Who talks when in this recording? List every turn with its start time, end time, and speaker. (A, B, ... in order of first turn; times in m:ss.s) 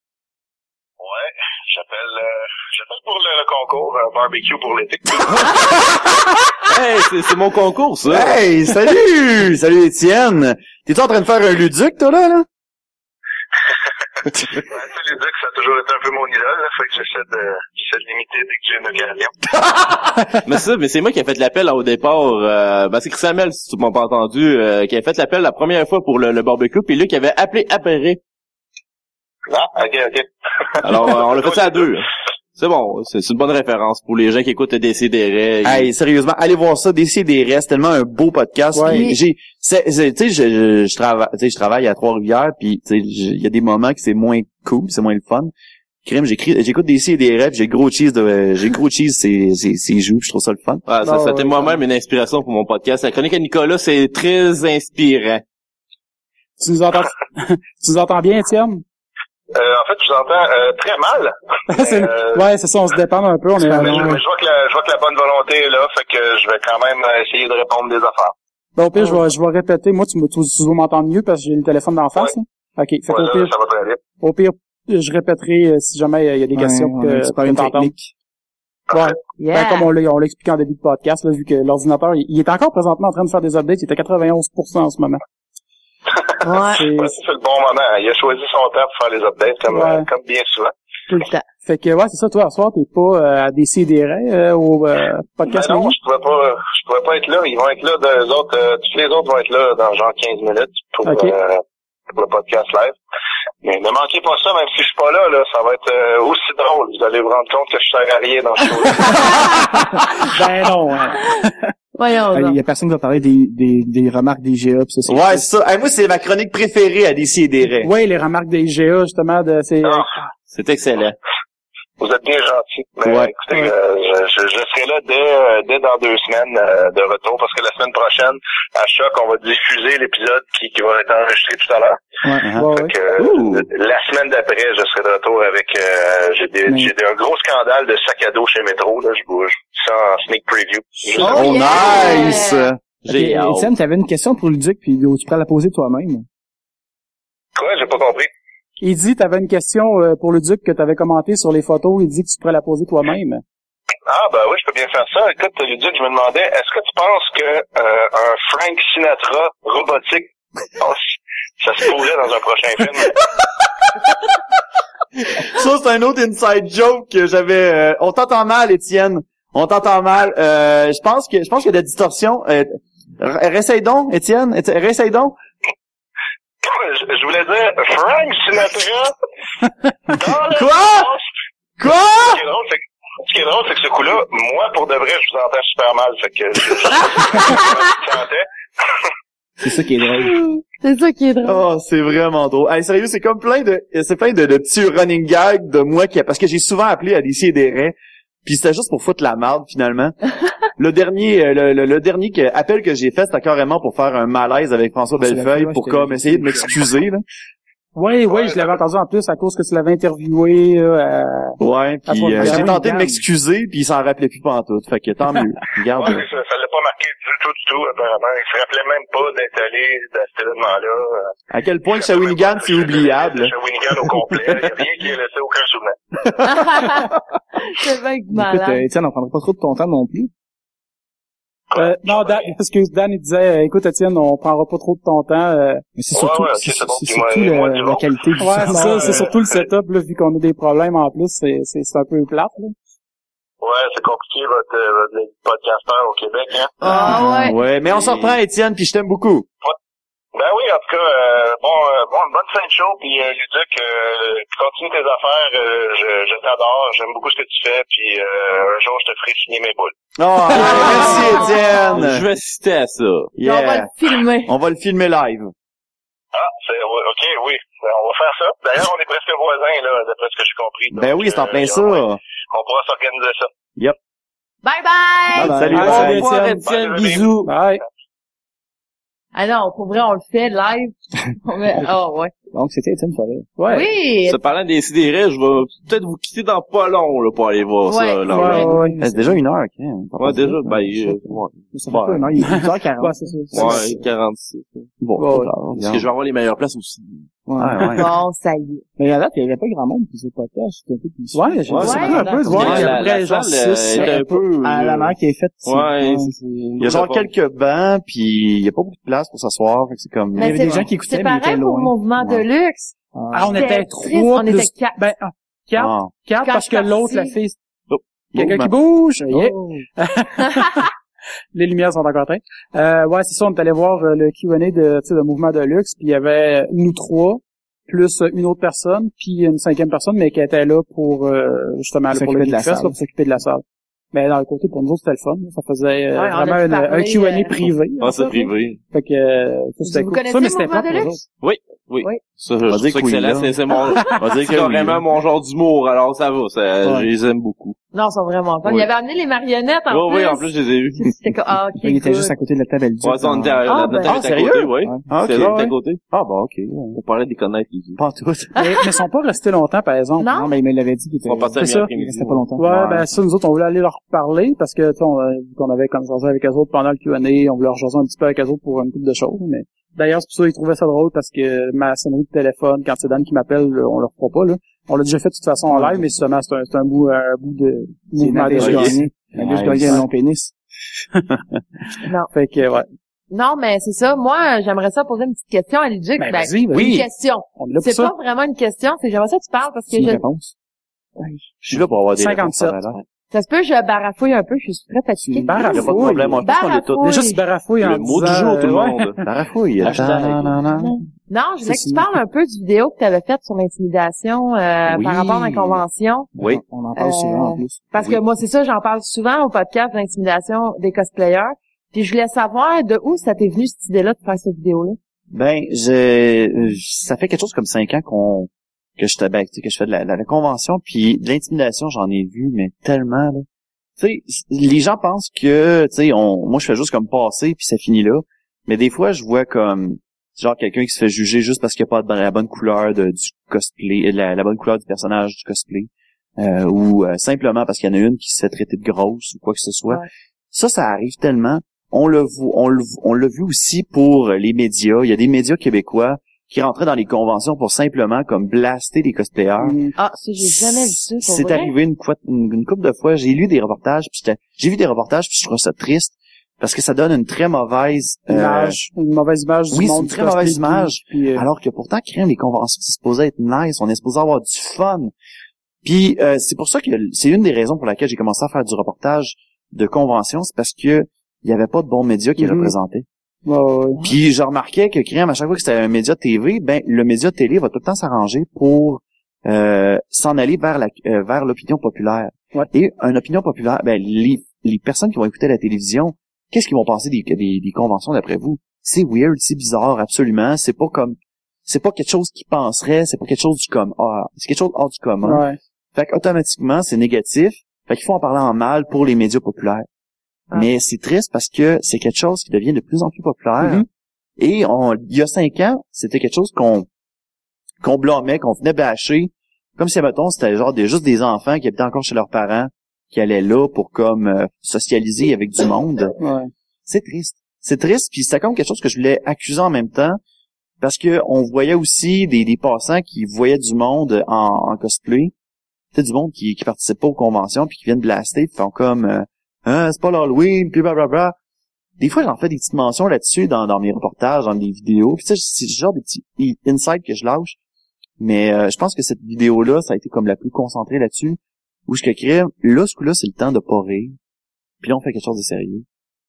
0:01.0-0:06.0 A
0:06.7-0:08.4 B
0:08.1-0:12.5 C
0:14.5-0:19.5 A
0:20.4-0:28.2 B
0:29.5-0:31.9 A
0:30.8-0:35.9 B
0:35.6-0:45.5 C
0:38.7-0:39.1 D
0:46.0-0:50.9 C
0:50.9-0:55.4 B
0:51.0-0:51.8 D
0:56.6-0:58.8 D
0:59.5-1:02.4 A
1:01.7-1:04.2 D
1:03.6-1:08.3 A
1:03.8-1:04.2 E
1:08.8-1:13.5 D
1:13.1-1:14.0 A
1:14.2-1:17.9 D
1:16.5-1:18.1 E
1:18.9-1:25.2 D
1:19.4-1:19.9 F
1:26.2-1:30.7 A
1:26.4-1:26.8 F
1:26.7-1:27.2 D
1:29.7-1:30.1 D
1:31.1-1:31.4 F
1:31.6-1:36.0 D
1:35.5-1:41.6 A
1:41.1-1:41.4 D
1:42.2-1:43.0 A
1:43.6-1:49.4 A
1:49.8-1:51.5 D
1:52.0-1:52.6 F
1:52.3-1:55.5 E
1:55.1-1:57.9 C
1:57.8-2:00.2 D
2:00.5-2:01.2 B
2:02.0-2:12.0 A
2:03.0-2:03.3 C
2:12.4-2:12.7 C
2:12.6-2:12.9 D
2:12.7-2:21.7 A
2:16.7-2:16.9 E
2:21.2-2:22.7 F
2:21.2-2:22.8 C
2:23.0-2:23.7 B
2:23.1-2:26.3 E
2:27.6-2:28.3 A
2:28.8-2:33.4 D
2:34.1-2:41.0 A
2:41.6-2:43.1 A
2:45.4-2:55.4 C
2:56.6-2:59.1 A
3:00.1-3:01.2 A
3:00.5-3:01.1 C
3:01.8-3:02.4 C
3:02.2-3:08.5 A
3:09.6-3:10.4 E
3:10.2-3:11.6 F
3:11.4-3:17.9 C
3:18.4-3:20.2 C
3:20.8-3:27.2 C
3:25.2-3:26.8 E
3:28.0-3:32.8 D
3:28.3-3:28.8 A
3:31.6-3:36.2 C
3:32.4-3:33.2 E
3:35.9-3:41.3 A
3:41.5-3:43.5 C
3:41.9-3:46.3 A
3:46.4-3:48.8 F
3:48.3-3:50.3 E
3:51.7-3:52.5 A
3:51.8-3:55.8 D
3:56.0-3:59.3 E
3:56.1-3:59.6 A
3:58.4-4:02.8 D
4:03.6-4:06.8 A
4:06.8-4:07.6 F
4:06.8-4:09.4 C
4:07.1-4:07.4 E
4:10.4-4:19.9 A
4:20.2-4:22.3 C
4:20.5-4:22.0 F
4:20.8-4:21.2 D
4:20.9-4:23.3 B
4:23.4-4:23.9 C
4:23.4-4:24.5 F
4:24.4-4:25.5 C
4:26.3-4:33.5 A
4:30.9-4:32.2 C
4:34.6-4:35.7 F
4:35.3-4:36.1 E
4:35.4-4:36.3 C
4:35.7-4:37.5 B
4:35.7-4:36.9 D
4:36.6-4:37.4 A
4:37.4-4:37.8 D
4:39.4-4:42.3 F
4:42.5-4:43.5 E
4:43.6-4:43.9 D
4:43.7-4:44.4 F
4:44.2-4:48.7 B
4:47.9-4:48.7 F
4:48.3-4:49.0 D
4:48.5-4:49.4 E
4:49.0-4:51.3 C
4:50.2-4:51.6 B
4:51.7-4:54.0 E
4:51.9-4:52.4 C
4:52.4-4:53.8 D
4:53.5-4:54.9 B
4:55.0-4:56.1 C
4:55.2-4:55.5 D
4:55.7-4:57.3 B
4:57.5-4:58.0 E
4:57.6-4:58.1 C
4:58.0-4:58.8 F
4:59.0-5:02.9 E
5:01.3-5:04.4 D
5:01.7-5:07.3 B
5:01.8-5:02.7 F
5:04.0-5:06.3 E
5:06.8-5:10.8 C
5:10.4-5:12.0 E
5:10.4-5:13.0 F
5:12.2-5:12.4 C
5:13.1-5:13.8 E
5:13.3-5:17.6 D
5:13.5-5:15.0 F
5:15.8-5:16.1 C
5:16.4-5:17.3 F
5:18.3-5:18.7 C
5:18.4-5:20.9 D
5:19.3-5:19.8 E
5:21.5-5:41.2 D
5:32.1-5:33.0 E
5:36.2-5:38.5 F
5:38.0-5:38.8 B
5:39.8-5:41.2 F
5:41.4-5:47.8 B
5:42.7-5:45.0 C
5:46.8-5:47.1 E
5:47.9-5:52.3 F
5:49.9-5:51.2 B
5:51.8-5:53.7 E
5:53.0-5:56.0 B
5:53.7-5:54.2 F
5:54.1-5:57.0 C
5:56.9-5:58.0 B
5:58.0-5:58.6 C
5:58.6-6:00.3 D
6:00.2-6:00.5 F
6:00.3-6:03.1 E
6:01.3-6:02.5 B
6:01.6-6:01.9 D
6:02.6-6:19.1 D
6:15.7-6:16.1 E
6:18.1-6:20.5 E
6:18.6-6:20.1 C
6:22.0-6:22.3 F
6:22.3-6:22.9 D
6:23.3-6:30.2 F
6:26.2-6:28.1 D
6:29.9-6:30.5 E
6:31.2-6:31.5 F
6:31.6-6:33.0 C
6:32.2-6:32.8 D
6:33.3-6:37.4 F
6:35.2-6:35.6 E
6:35.4-6:36.4 D
6:35.7-6:37.1 C
6:37.0-6:39.2 D
6:37.8-6:39.2 B
6:39.2-6:41.0 C
6:39.8-6:40.5 B
6:40.8-6:46.3 F
6:41.6-6:42.1 D
6:44.9-6:45.8 C
6:46.4-6:46.6 C
6:46.4-6:47.9 E
6:47.0-6:55.0 F
6:55.3-7:03.4 C
7:04.0-7:29.8 C
7:29.6-7:30.0 D
7:30.0-7:31.7 F
7:30.4-7:38.8 C
7:38.3-7:41.5 D
7:39.7-7:45.1 C
7:45.8-7:53.0 C
7:52.4-7:52.7 D
7:53.4-7:54.1 D
7:54.0-8:19.9 C
8:15.2-8:15.6 D
8:20.5-8:23.8 C
8:24.4-8:26.9 C
8:27.8-8:36.2 C
8:36.2-8:36.5 D
8:36.9-8:40.2 C
8:40.8-8:45.3 C
8:45.9-8:51.4 C
8:52.0-8:57.6 C
8:58.2-9:04.2 C
9:04.8-9:05.8 C